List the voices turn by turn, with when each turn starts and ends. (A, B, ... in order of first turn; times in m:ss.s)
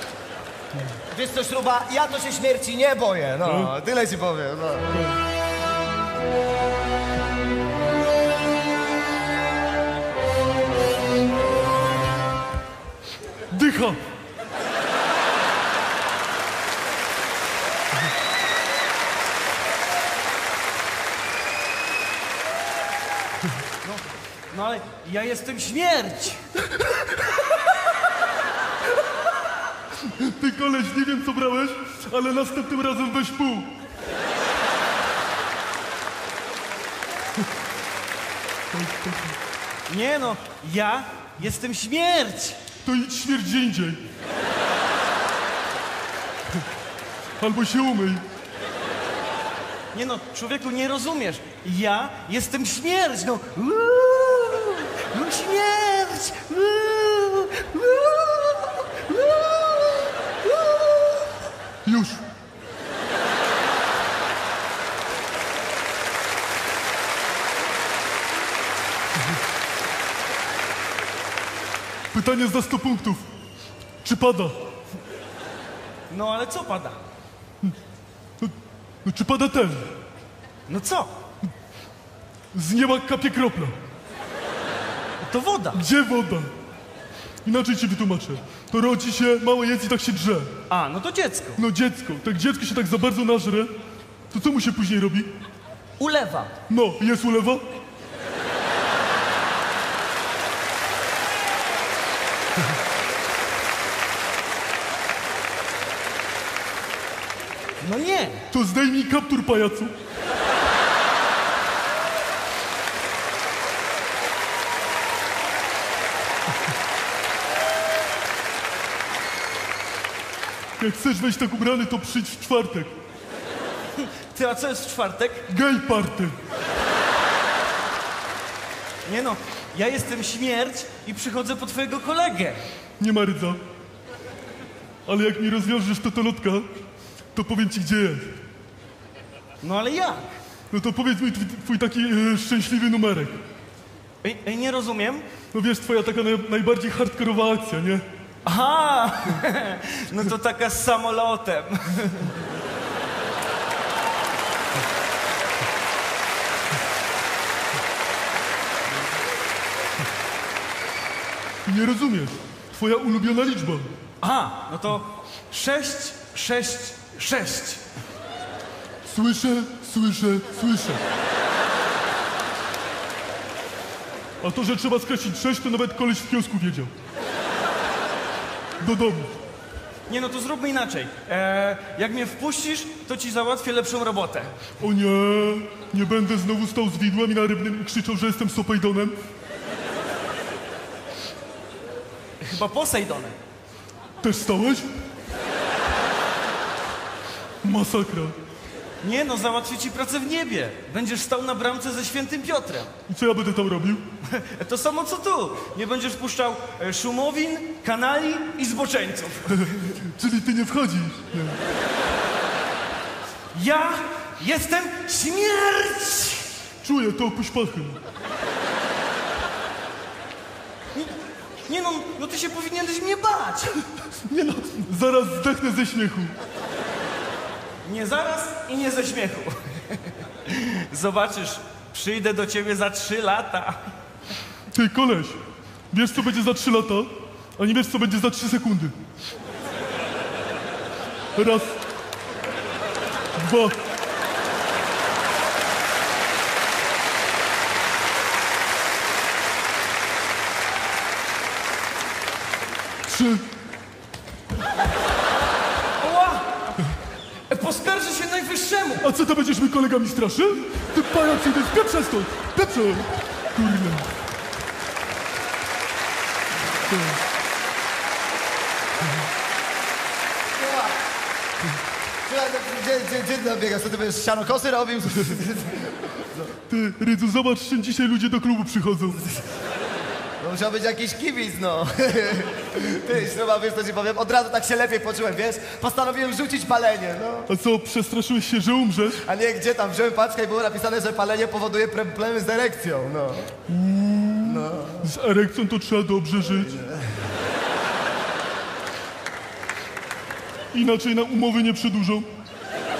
0:01.1-0:05.0 A
0:03.4-0:03.7 B
0:13.5-0:14.0 B
0:23.8-0:26.6 C
0:30.0-0:33.7 B
0:38.7-0:39.4 B
0:39.9-0:42.6 C
0:42.8-0:44.0 B
0:47.4-0:48.2 B
0:49.9-1:01.3 C
1:01.8-1:02.2 B
1:12.1-1:13.2 B
1:14.0-1:14.6 B
1:16.1-1:17.0 C
1:18.4-1:19.9 B
1:20.7-1:21.1 C
1:22.5-1:23.8 B
1:25.2-1:25.8 C
1:25.7-1:26.5 B
1:27.4-1:30.5 B
1:30.7-1:31.6 C
1:31.6-1:33.7 B
1:34.3-1:35.3 B
1:36.0-1:36.6 C
1:36.7-1:37.6 B
1:47.8-1:48.4 C
1:48.5-1:49.9 B
2:00.8-2:02.9 B
2:04.0-2:05.5 C
2:05.5-2:06.3 B
2:09.0-2:12.6 C
2:13.0-2:13.6 B
2:15.0-2:16.7 B
2:17.3-2:18.4 B
2:19.6-2:20.2 C
2:20.7-2:23.4 B
2:24.2-2:25.2 C
2:25.5-2:28.0 B
2:28.4-2:32.4 C
2:41.6-2:43.9 B
2:44.2-2:47.8 C
2:49.0-2:51.0 B
2:54.4-2:56.9 B
2:58.8-2:59.3 B
3:00.1-3:04.6 C
3:04.8-3:09.1 B
3:12.4-3:13.4 C
3:14.2-3:14.9 B
3:17.6-3:18.3 B
3:19.0-3:22.9 C
3:23.1-3:24.0 B
3:24.2-3:29.8 C
3:29.5-3:31.6 B
3:33.5-3:36.5 C
3:36.8-3:38.0 B
3:40.9-3:43.9 C
3:44.2-3:46.3 B
3:47.8-3:53.8 C
3:54.7-3:55.4 B
3:55.9-3:58.9 B
4:01.4-4:01.8 B
4:03.3-4:03.8 B
4:13.0-4:13.4 B
4:16.0-4:16.5 C
4:17.5-4:19.1 C
4:19.0-4:24.1 B
4:26.9-4:27.2 B
4:30.6-4:30.9 A
4:32.2-4:36.5 A
4:36.7-4:39.2 B
4:40.4-4:47.5 A
4:47.5-4:49.2 B
4:49.1-4:53.5 A
4:53.7-4:56.7 B
4:54.4-4:55.1 A
4:56.6-4:57.1 A
5:00.7-5:02.2 B